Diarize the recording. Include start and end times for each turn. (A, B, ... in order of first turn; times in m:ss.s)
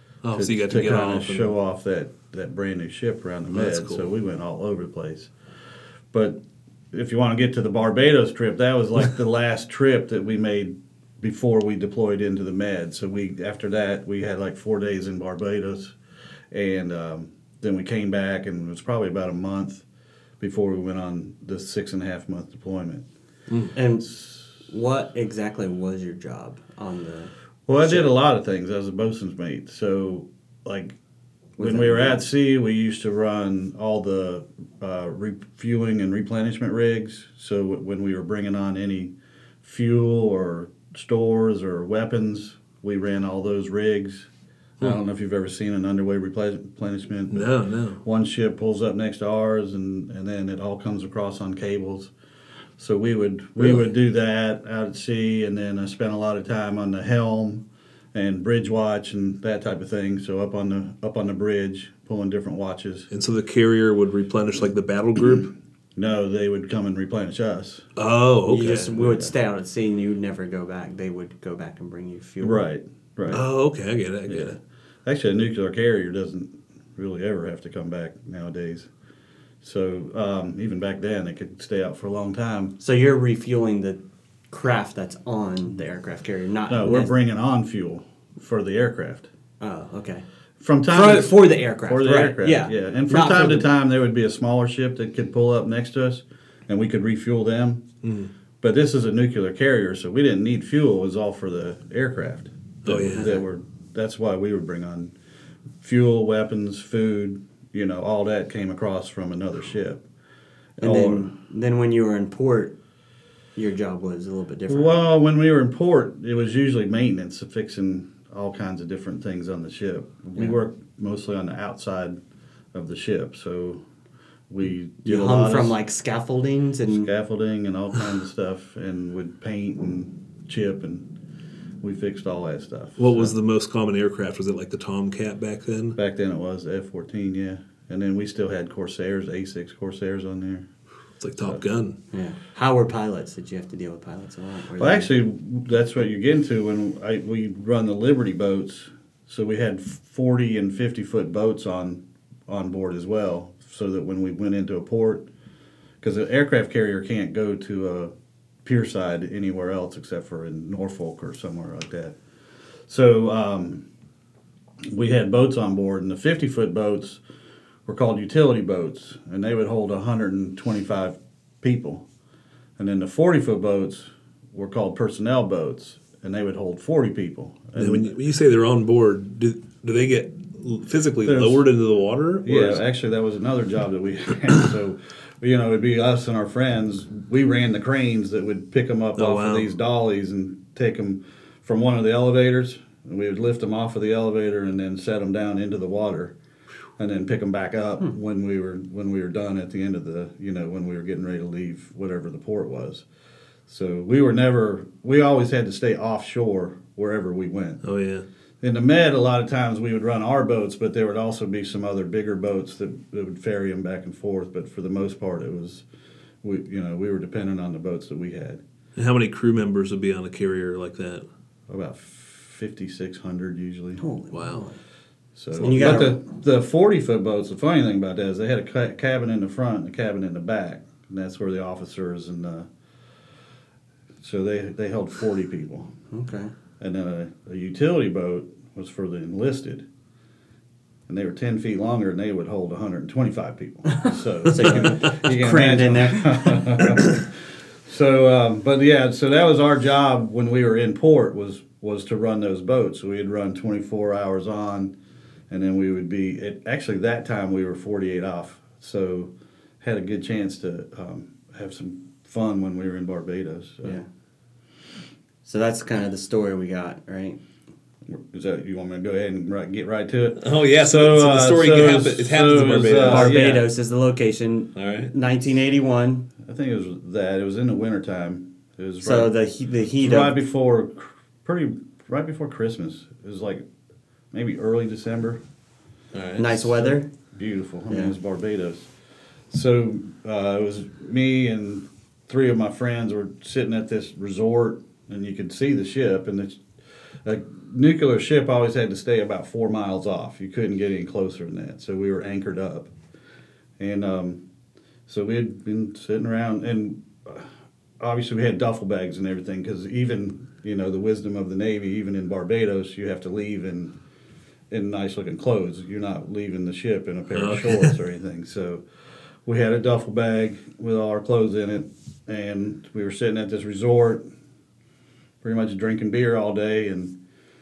0:00.2-0:01.5 A
0:00.3-0:05.3 B
0:03.5-0:04.1 A
0:06.1-0:06.4 B
0:06.9-0:15.9 B
0:16.5-0:19.8 B
0:20.4-0:23.0 B
0:23.7-0:28.1 C
0:27.7-0:31.0 B
0:31.6-0:32.2 C
0:31.6-0:44.3 B
0:44.8-0:47.5 B
0:47.3-0:48.0 A
0:48.0-0:52.1 B
0:52.8-1:03.1 B
1:03.1-1:05.5 A
1:06.0-1:07.8 B
1:08.0-1:09.0 A
1:08.5-1:12.6 C
1:09.0-1:09.3 B
1:12.4-1:13.4 B
1:13.3-1:14.6 A
1:14.3-1:14.5 B
1:15.0-1:18.9 B
1:19.6-1:22.7 B
1:22.8-1:27.1 C
1:26.7-1:29.3 B
1:29.6-1:30.2 C
1:30.6-1:37.8 B
1:30.9-1:33.7 C
1:38.0-1:38.3 A
1:38.6-1:45.1 B
1:42.8-1:43.3 A
1:43.2-1:43.4 C
1:45.8-1:50.0 B
1:50.8-1:51.3 B
1:50.8-1:52.8 C
1:53.6-1:55.0 C
1:54.7-2:02.2 B
2:02.7-2:03.8 B
2:04.5-2:05.8 B
2:05.0-2:07.1 C
2:06.9-2:11.1 B
2:11.8-2:13.3 B
2:13.0-2:16.0 A
2:16.0-2:20.7 B
2:21.2-2:22.0 A
2:22.1-2:25.1 C
2:24.8-2:35.3 B
2:36.0-2:38.1 B
2:38.6-2:42.2 B
2:42.9-2:43.8 B
2:44.9-2:47.2 B
2:47.8-2:52.0 B
2:52.8-2:58.1 B
2:57.8-3:02.8 A
3:01.2-3:01.6 B
3:02.4-3:16.3 B
3:09.2-3:09.7 A
3:17.0-3:23.0 B
3:23.7-3:27.8 B
3:27.8-3:28.2 A
3:28.6-3:35.8 B
3:36.4-3:38.6 B
3:39.0-3:41.2 A
3:41.7-3:44.0 B
3:44.0-3:44.8 C
3:44.3-3:44.6 A
3:45.4-3:52.7 B
3:45.6-3:46.2 C
3:54.2-3:55.9 B
3:56.1-3:56.5 C
3:56.8-3:59.8 B
4:01.1-4:14.9 B
4:04.5-4:06.8 C
4:15.5-4:24.0 B
4:25.4-4:27.4 C
4:28.1-4:33.7 B
4:30.4-4:33.4 A
4:33.0-4:36.3 C
4:34.8-4:35.1 A
4:36.4-4:39.3 B
4:39.0-4:40.4 C
4:40.0-4:43.6 B
4:44.3-4:45.4 B
4:46.1-4:46.7 A
4:46.4-4:47.1 C
4:47.3-4:48.9 B
4:49.5-4:56.6 B
4:57.2-5:02.9 B
5:03.8-5:04.4 B
5:05.1-5:07.5 B
5:08.0-5:14.0 B
5:14.7-5:18.8 B
5:17.3-5:18.0 A
5:19.4-5:24.2 B
5:25.4-5:27.1 B